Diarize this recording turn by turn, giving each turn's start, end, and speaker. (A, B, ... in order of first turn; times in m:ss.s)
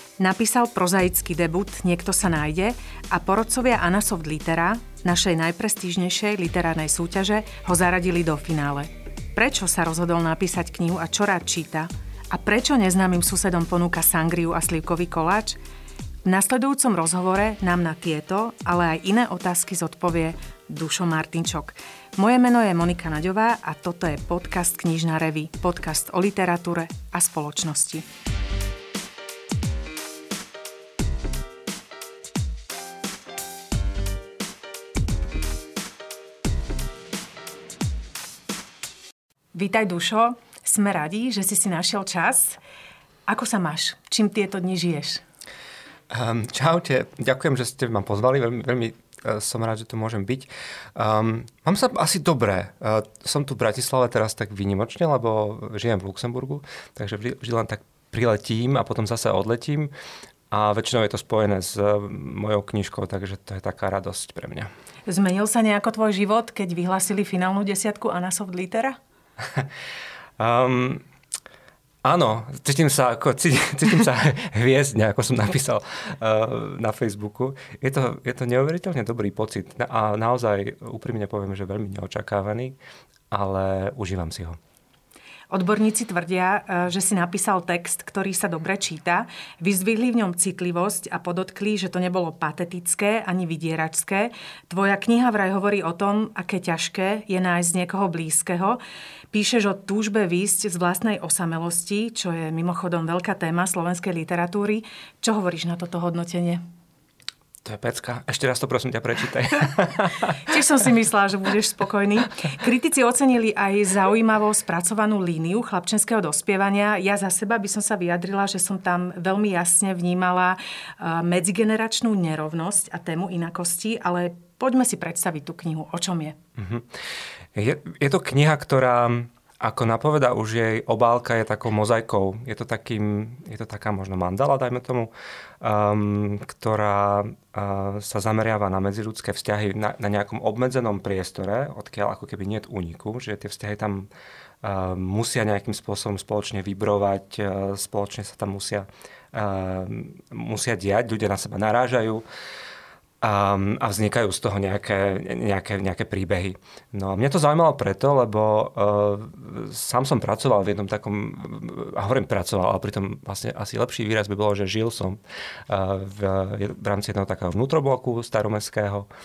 0:00.2-0:15.6 A
0:16.2-0:28.0 A
0:39.5-0:42.6 A
0:43.3-0:45.2 A
0:46.1-0:59.9 B
1:00.5-1:04.7 B
1:05.1-1:09.0 A
1:09.4-1:09.7 B
1:10.4-1:11.0 B
1:12.0-1:22.8 B
1:23.3-1:24.6 B
1:25.5-1:38.8 A
1:39.3-1:46.6 A
1:47.6-1:50.6 B
1:50.3-2:06.4 A
2:06.6-2:06.9 B
2:07.5-2:15.1 B
2:15.6-2:24.1 B
2:24.6-2:32.2 B
2:33.2-2:49.1 B